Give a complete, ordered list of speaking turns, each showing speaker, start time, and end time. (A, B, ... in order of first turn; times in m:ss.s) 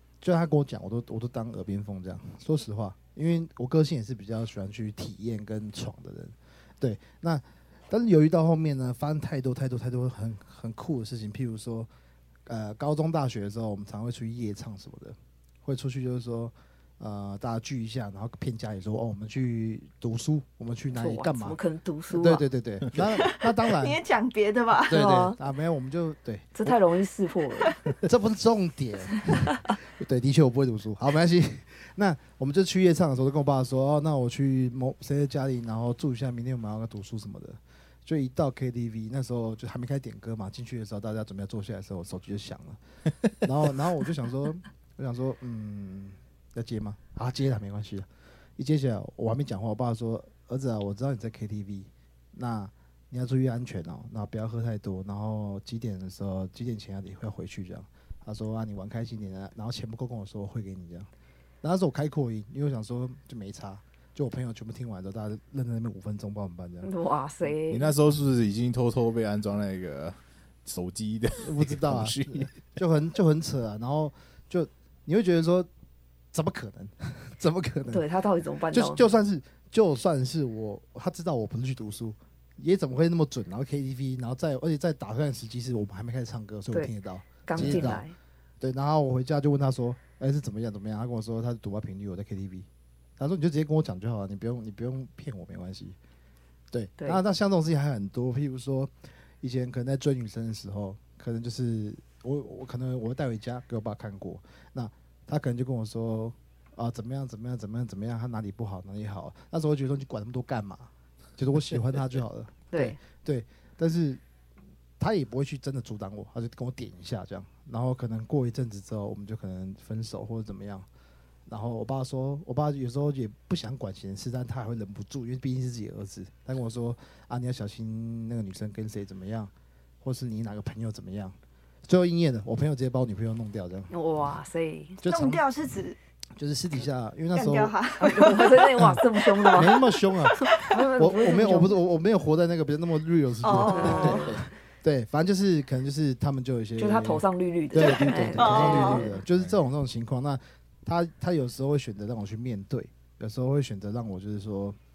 0:00.2-0:11.9 A
0:12.4-0:21.6 A
0:20.9-0:22.4 B
0:22.1-0:24.0 A
0:23.1-0:25.0 C
0:24.9-0:26.7 A
0:24.9-0:25.4 B
0:26.5-0:27.7 B
0:28.0-0:42.8 A
0:43.4-1:01.1 A
1:01.6-1:06.9 A
1:06.8-1:07.9 B
1:07.7-1:12.5 D
1:11.4-1:15.7 A
1:16.3-1:18.0 A
1:17.9-1:19.0 B
1:18.7-1:28.0 A
1:27.4-1:28.1 B
1:27.5-1:28.0 D
1:28.6-1:32.7 A
1:33.2-1:36.0 A
1:36.7-1:54.2 A
1:52.7-1:53.0 B
1:55.0-2:00.8 A
2:01.5-2:09.5 A
2:10.0-2:13.9 A
2:13.9-2:15.0 B
2:15.0-2:15.4 A
2:15.0-2:16.0 C
2:16.4-2:17.8 A
2:17.3-2:20.6 C
2:18.0-2:19.8 B
2:18.8-2:34.8 A
2:20.4-2:21.8 B
2:23.4-2:24.4 C
2:23.6-2:24.4 B
2:26.8-2:29.2 B
2:27.8-2:29.1 C
2:29.3-2:29.6 D